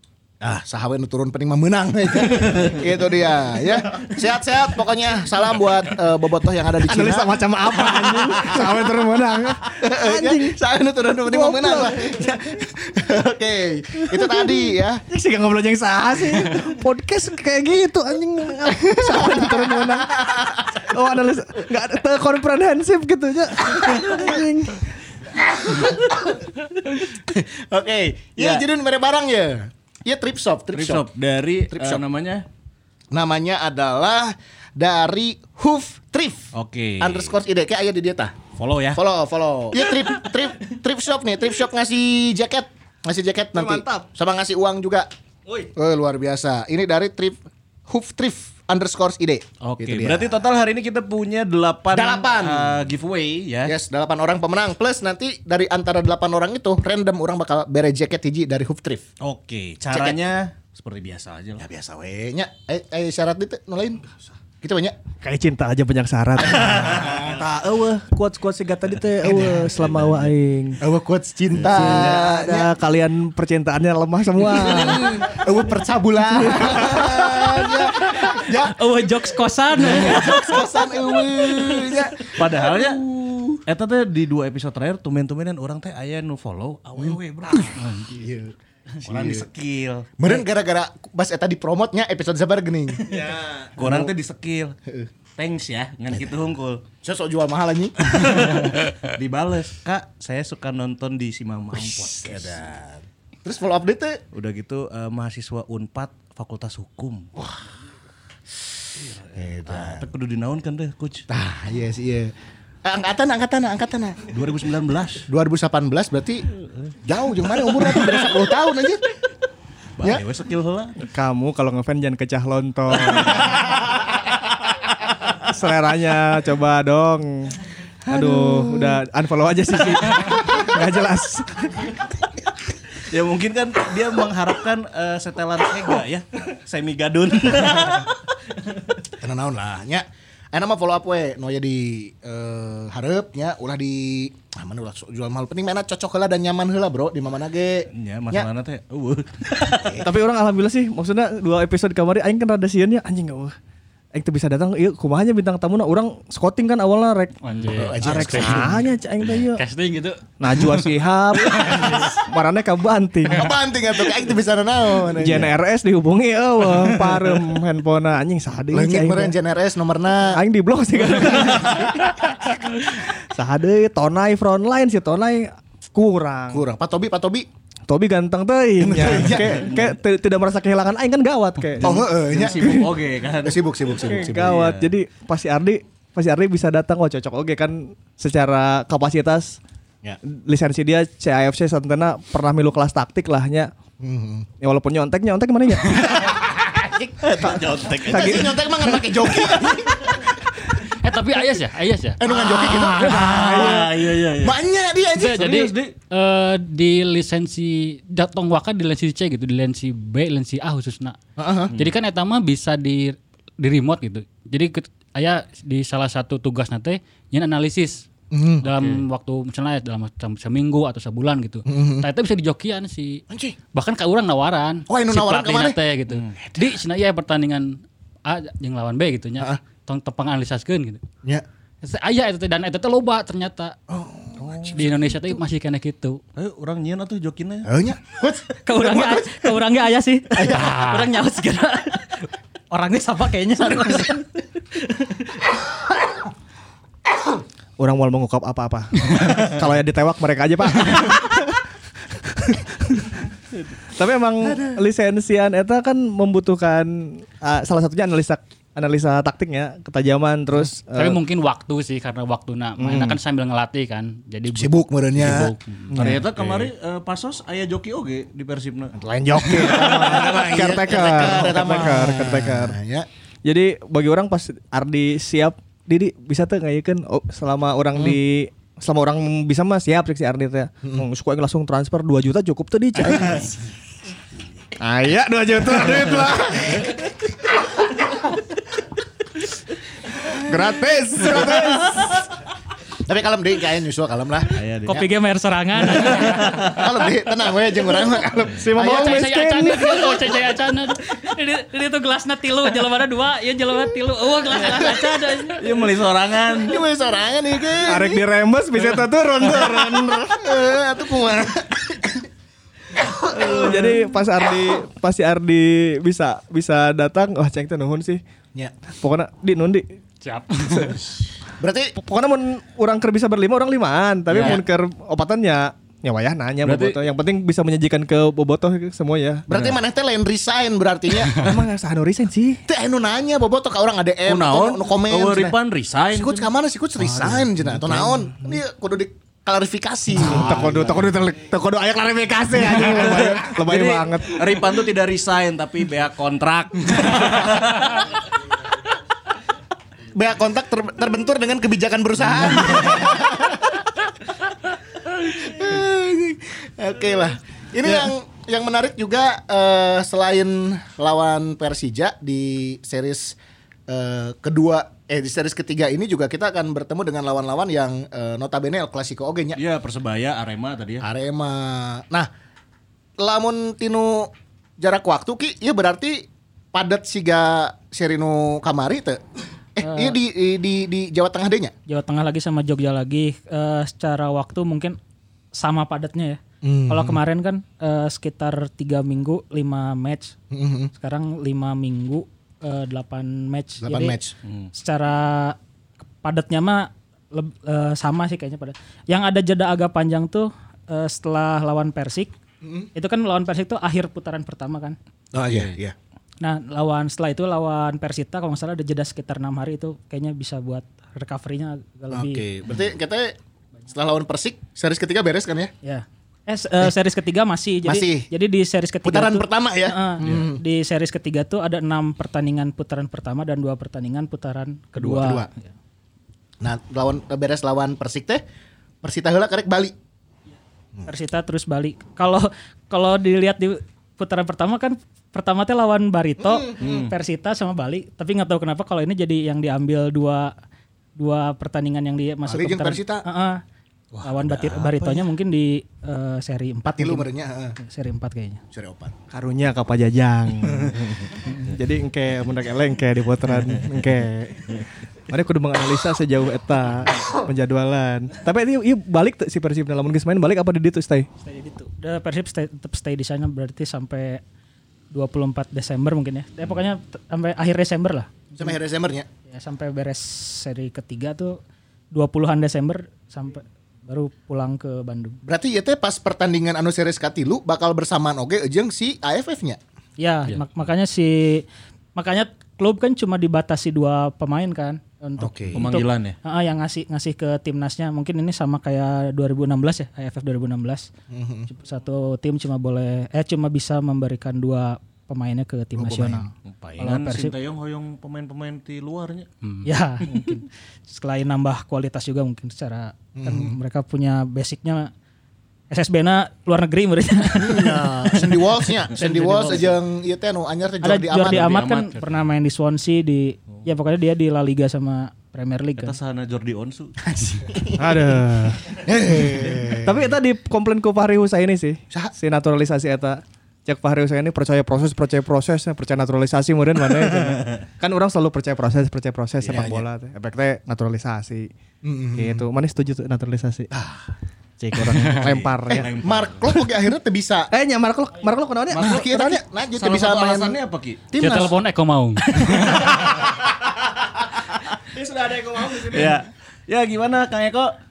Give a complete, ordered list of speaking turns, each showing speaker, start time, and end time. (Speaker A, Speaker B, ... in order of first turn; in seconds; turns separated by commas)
Speaker A: 0.4-8.8, Speaker B: 2.3-2.7, Speaker C: 6.8-10.6, Speaker A: 9.8-15.0, Speaker C: 11.2-12.2, Speaker C: 13.9-24.9, Speaker A: 19.1-20.8, Speaker A: 25.4-31.0, Speaker B: 28.4-28.6, Speaker B: 30.7-32.5, Speaker A: 31.7-32.0, Speaker A: 33.1-38.3, Speaker B: 36.5-37.3, Speaker B: 38.6-39.0, Speaker A: 38.9-45.1, Speaker C: 43.5-44.0, Speaker A: 45.8-50.4, Speaker B: 49.6-53.8, Speaker A: 51.9-52.8, Speaker A: 53.6-59.0, Speaker B: 59.2-61.6, Speaker A: 59.9-60.2, Speaker A: 61.6-64.9, Speaker C: 65.2-70.8, Speaker B: 66.5-67.3, Speaker A: 66.6-67.4, Speaker A: 69.2-69.6, Speaker B: 69.6-70.3, Speaker A: 70.8-72.7, Speaker C: 71.6-75.3, Speaker A: 74.5-78.8, Speaker C: 76.3-77.5, Speaker D: 78.6-80.4, Speaker A: 79.9-83.6, Speaker B: 81.6-83.0, Speaker B: 83.7-88.1, Speaker A: 87.0-88.5, Speaker B: 89.0-90.3, Speaker A: 89.0-89.4, Speaker A: 90.2-94.1, Speaker B: 93.0-94.7, Speaker B: 95.4-96.8, Speaker A: 97.0-98.7, Speaker B: 98.1-102.6, Speaker A: 101.7-104.2, Speaker B: 104.3-107.3, Speaker A: 107.4-107.6, Speaker B: 109.0-111.3, Speaker A: 109.3-110.1, Speaker A: 111.3-112.3, Speaker A: 112.8-114.2, Speaker B: 114.3-115.3, Speaker A: 115.3-116.5, Speaker A: 117.0-119.0, Speaker B: 117.8-118.2, Speaker B: 120.0-121.0, Speaker C: 121.1-123.7, Speaker B: 123.0-123.6, Speaker C: 125.4-131.9, Speaker A: 128.1-128.9, Speaker B: 133.0-138.1, Speaker A: 139.2-148.5, Speaker B: 147.9-150.1, Speaker A: 149.8-150.1, Speaker C: 150.0-153.5, Speaker C: 154.1-157.3, Speaker E: 157.4-158.8, Speaker A: 157.8-158.8, Speaker C: 157.9-159.6, Speaker E: 159.3-160.8, Speaker C: 160.4-163.5, Speaker E: 161.4-162.1, Speaker A: 161.6-162.2, Speaker A: 163.3-165.5, Speaker C: 165.2-169.3, Speaker A: 168.7-170.4, Speaker C: 170.3-176.6, Speaker A: 171.5-171.9, Speaker A: 176.5-177.5, Speaker C: 177.9-182.9, Speaker A: 178.8-179.8, Speaker A: 181.8-182.8, Speaker B: 181.8-184.9, Speaker A: 183.4-184.7, Speaker C: 184.0-189.6, Speaker C: 190.2-193.7, Speaker A: 194.0-194.5, Speaker C: 194.6-196.2, Speaker A: 196.1-200.3, Speaker B: 197.2-198.6, Speaker C: 197.4-198.6, Speaker E: 200.9-202.2, Speaker A: 202.2-205.6, Speaker B: 202.3-204.6, Speaker E: 205.2-211.2, Speaker B: 205.3-205.9, Speaker A: 211.4-211.7, Speaker E: 211.7-218.1, Speaker A: 218.3-218.6, Speaker E: 218.6-231.0, Speaker B: 218.6-219.0, Speaker A: 221.7-222.1, Speaker A: 223.3-223.6, Speaker A: 224.9-225.8, Speaker B: 226.1-226.3, Speaker E: 231.8-233.8, Speaker A: 233.9-234.6, Speaker B: 234.4-234.8, Speaker E: 234.7-236.2, Speaker B: 236.3-237.7, Speaker A: 237.7-239.3, Speaker D: 238.6-245.4, Speaker E: 240.4-241.1, Speaker A: 240.4-240.7, Speaker A: 243.6-244.1, Speaker C: 247.8-253.2, Speaker C: 253.9-261.2, Speaker E: 260.9-266.0, Speaker C: 262.8-263.2, Speaker A: 264.5-265.5, Speaker C: 265.9-266.3, Speaker B: 265.9-268.9, Speaker C: 269.0-272.8, Speaker A: 269.3-273.1, Speaker B: 270.0-270.6, Speaker C: 273.4-283.5, Speaker A: 283.0-283.5, Speaker C: 284.8-287.0, Speaker C: 290.3-292.2, Speaker A: 291.3-291.7, Speaker A: 293.1-295.1, Speaker B: 294.5-295.0, Speaker D: 294.9-296.8, Speaker B: 296.0-296.8, Speaker A: 296.7-299.2, Speaker C: 298.6-300.1, Speaker E: 298.8-301.0, Speaker D: 301.0-305.7, Speaker B: 305.6-306.8, Speaker A: 306.5-308.2, Speaker C: 307.8-310.6, Speaker A: 310.3-312.2, Speaker A: 313.0-314.0, Speaker C: 313.3-318.2, Speaker C: 318.9-319.8, Speaker E: 320.2-321.1, Speaker A: 320.8-321.1, Speaker A: 321.6-321.9, Speaker C: 322.0-329.4, Speaker B: 324.3-324.6, Speaker B: 326.6-327.0, Speaker A: 329.5-331.4, Speaker C: 331.3-332.6, Speaker A: 332.7-335.5, Speaker B: 334.2-336.5, Speaker A: 336.1-341.1, Speaker C: 337.0-338.5, Speaker C: 340.1-344.5, Speaker A: 342.5-343.4, Speaker B: 342.8-348.1, Speaker A: 350.1-353.9, Speaker A: 355.1-363.4, Speaker A: 363.9-369.6, Speaker B: 369.6-371.1, Speaker A: 371.0-372.3, Speaker A: 373.2-379.2, Speaker A: 379.7-381.7, Speaker D: 379.8-380.2, Speaker D: 381.9-385.0, Speaker D: 385.5-390.4, Speaker A: 386.6-387.2, Speaker A: 390.5-390.9, Speaker D: 390.9-394.2, Speaker A: 393.8-394.3, Speaker B: 394.4-394.7, Speaker D: 394.7-395.6, Speaker D: 396.2-402.3, Speaker A: 402.6-402.9, Speaker D: 402.9-404.9, Speaker A: 405.3-405.9, Speaker B: 405.4-405.8, Speaker D: 406.4-412.4, Speaker A: 412.1-413.4, Speaker A: 413.9-415.7, Speaker D: 415.8-425.5, Speaker A: 417.8-418.3, Speaker A: 419.0-420.6, Speaker A: 424.9-425.5, Speaker A: 426.6-428.4, Speaker A: 429.0-429.9, Speaker D: 431.0-440.5, Speaker A: 436.4-436.7, Speaker B: 436.8-437.1, Speaker D: 441.2-443.6, Speaker A: 442.5-443.2, Speaker B: 444.1-445.3, Speaker D: 444.2-448.6, Speaker A: 446.9-447.8, Speaker A: 448.7-449.1, Speaker C: 449.3-461.3, Speaker D: 461.4-464.4, Speaker D: 465.1-468.8, Speaker A: 468.6-469.3, Speaker D: 469.5-471.6, Speaker D: 472.1-475.4, Speaker A: 475.4-479.8, Speaker D: 480.2-491.1, Speaker A: 485.4-485.9, Speaker B: 485.7-486.4, Speaker A: 491.3-491.7, Speaker D: 491.7-497.5, Speaker A: 495.9-496.5, Speaker B: 496.6-499.5, Speaker E: 499.6-499.9, Speaker D: 499.8-505.1, Speaker A: 503.3-503.7, Speaker D: 505.9-509.9, Speaker A: 507.6-511.9, Speaker D: 511.0-516.1, Speaker B: 511.4-512.5, Speaker B: 516.0-517.2, Speaker A: 517.2-518.4, Speaker C: 518.0-518.9, Speaker A: 519.0-520.2, Speaker C: 520.0-531.7, Speaker B: 529.6-529.9, Speaker A: 529.7-530.0, Speaker A: 532.0-532.6, Speaker C: 532.3-533.9, Speaker A: 533.9-534.3, Speaker C: 534.8-536.1, Speaker B: 535.2-536.6, Speaker A: 535.9-537.7, Speaker C: 537.7-539.6, Speaker B: 538.9-539.2, Speaker A: 539.0-540.8, Speaker B: 539.9-541.2, Speaker A: 541.3-541.8, Speaker E: 541.4-543.1, Speaker B: 543.0-543.5, Speaker C: 545.2-546.4, Speaker B: 546.0-547.9